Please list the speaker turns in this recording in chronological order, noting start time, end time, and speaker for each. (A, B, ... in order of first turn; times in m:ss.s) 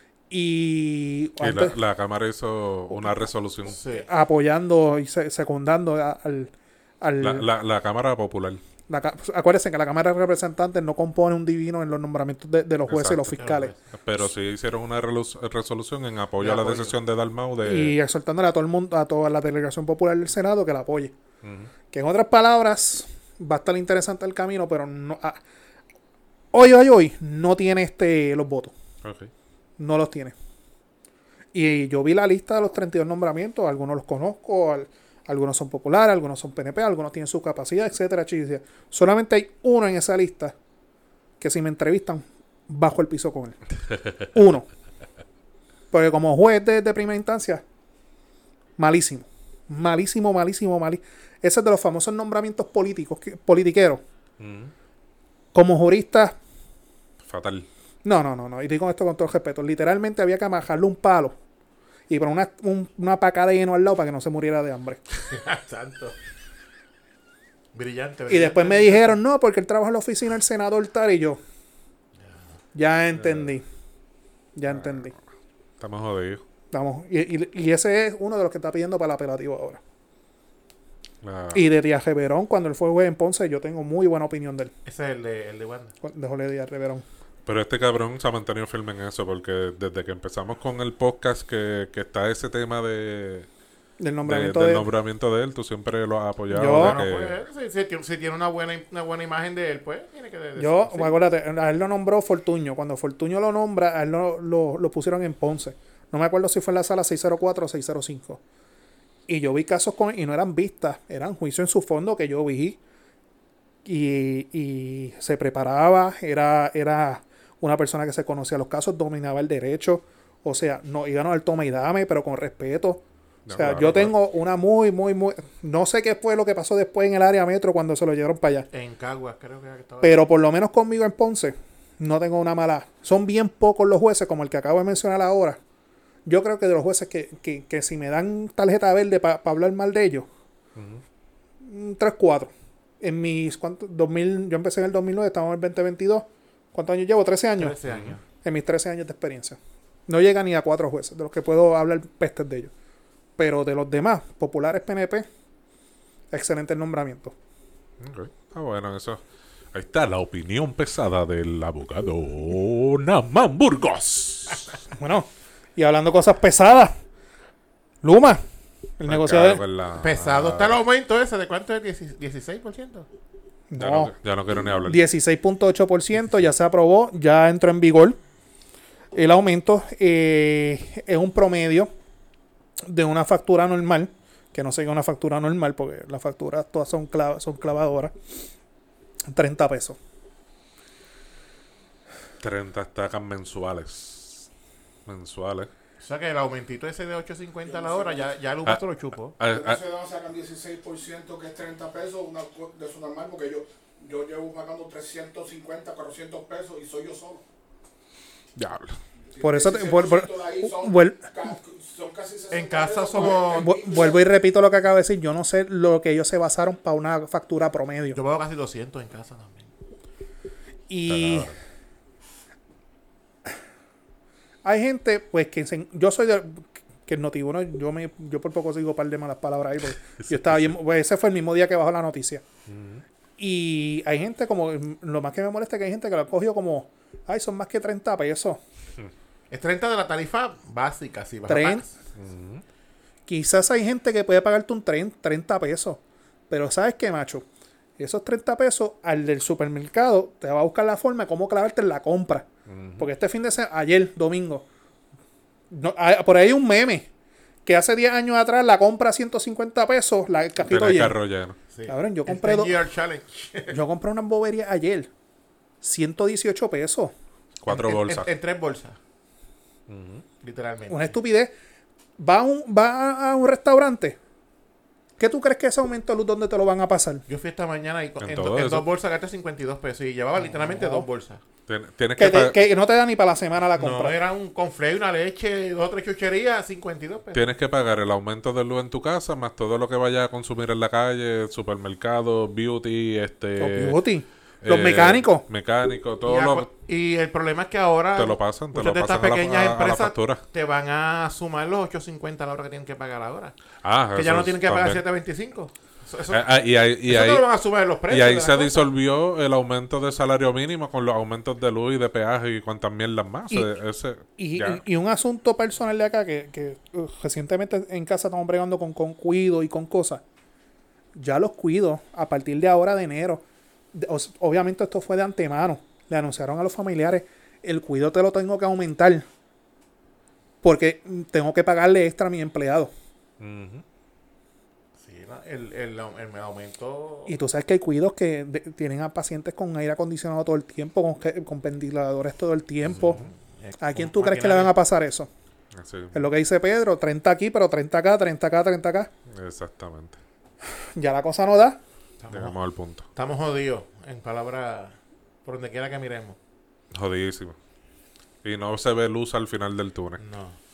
0:00.3-0:01.8 A
0:01.4-0:03.8 B
0:03.7-0:04.1 C
0:03.9-0:07.5 A
0:07.2-0:08.6 B
0:08.9-0:13.7 A
0:12.9-0:13.2 B
0:13.2-0:13.8 C
0:13.9-0:17.9 B
0:16.4-0:16.9 C
0:17.6-0:21.1 A
0:21.4-0:21.7 B
0:21.9-0:25.4 A
0:26.5-0:28.7 A
0:29.0-0:29.3 B
0:29.8-0:30.3 A
0:31.5-0:40.5 A
0:41.4-0:43.6 A
0:44.3-0:44.7 A
0:45.9-0:47.6 A
0:48.8-0:54.0 A
0:54.4-0:54.7 B
0:55.5-0:56.4 A
0:57.2-0:57.7 B
0:58.0-1:01.4 A
1:02.1-1:05.0 A
1:05.1-1:06.2 C
1:07.7-1:09.2 C
1:08.3-1:11.4 A
1:12.7-1:13.6 A
1:13.2-1:13.5 B
1:14.6-1:15.1 A
1:14.7-1:15.2 B
1:15.8-1:16.4 B
1:16.7-1:19.8 A
1:21.2-1:21.6 B
1:21.5-1:24.7 A
1:24.8-1:25.9 C
1:26.0-1:27.0 A
1:27.4-1:33.5 B
1:34.0-1:34.9 A
1:34.2-1:37.4 B
1:36.5-1:37.0 A
1:36.6-1:41.2 C
1:40.6-1:48.4 A
1:49.3-1:52.8 A
1:53.8-2:08.7 A
2:03.4-2:04.1 B
2:08.7-2:10.2 C
2:10.0-2:15.6 A
2:16.2-2:20.3 A
2:20.7-2:21.0 B
2:21.6-2:27.8 A
2:27.6-2:28.2 C
2:27.8-2:28.2 B
2:28.4-2:32.7 A
2:33.4-2:35.3 A
2:36.3-2:37.3 A
2:38.0-2:39.2 B
2:39.7-2:44.8 B
2:44.9-2:46.9 A
2:48.0-2:48.4 A
2:49.0-2:49.6 A
2:49.1-2:50.8 B
2:50.0-2:53.1 C
2:53.7-2:54.1 A
2:53.8-2:55.0 B
2:54.8-2:58.2 A
2:59.1-3:01.9 A
3:02.8-3:08.1 A
3:09.3-3:10.0 A
3:12.4-3:14.5 B
3:15.0-3:15.7 B
3:16.0-3:19.4 C
3:17.6-3:18.3 D
3:19.4-3:19.8 B
3:19.4-3:27.4 D
3:28.6-3:29.0 B
3:29.3-3:34.2 D
3:29.4-3:31.3 A
3:32.5-3:33.7 C
3:33.2-3:38.2 A
3:38.1-3:39.7 C
3:40.9-3:41.5 A
3:41.1-3:41.5 B
3:44.6-3:52.4 A
3:50.2-3:50.7 B
3:52.7-3:53.0 B
3:53.4-3:58.6 A
3:59.5-4:01.9 C
4:01.5-4:01.8 A
4:02.2-4:02.6 B
4:03.3-4:07.4 A
4:08.0-4:14.6 A
4:12.7-4:13.1 B
4:15.7-4:17.1 A
4:17.6-4:21.2 A
4:20.6-4:21.6 B
4:21.7-4:23.8 C
4:21.9-4:22.8 A
4:23.7-4:25.1 A
4:25.8-4:27.1 A
4:27.6-4:28.3 B
4:27.7-4:29.0 C
4:29.9-4:30.2 B
4:30.4-4:31.1 C
4:30.9-4:31.5 A
4:32.2-4:34.2 A
4:35.2-4:37.2 A
4:37.3-4:41.4 C
4:38.2-4:38.8 B
4:40.4-4:41.0 A
4:41.7-4:42.6 B
4:42.2-4:44.2 A
4:43.8-4:47.4 C
4:47.3-4:54.0 B
4:53.6-4:55.4 A
4:54.6-4:56.6 B
4:56.2-5:03.5 C
4:58.2-5:00.4 B
5:03.8-5:05.0 B
5:04.1-5:06.5 C
5:06.3-5:07.4 B
5:07.0-5:08.9 C
5:08.1-5:14.8 B
5:14.4-5:20.2 A
5:21.2-5:29.2 A
5:30.6-5:32.9 A
5:33.4-5:33.8 B
5:35.0-5:37.3 C
5:37.3-5:43.2 A
5:43.0-5:44.7 C
5:43.8-5:45.3 A
5:45.7-5:46.2 B
5:46.1-5:49.1 A
5:49.3-5:50.2 B
5:51.0-5:51.8 A
5:52.2-5:52.6 C
5:52.3-5:53.0 B
5:53.1-5:56.4 C
5:56.9-5:57.6 B
5:58.4-6:00.2 B
6:00.2-6:00.6 C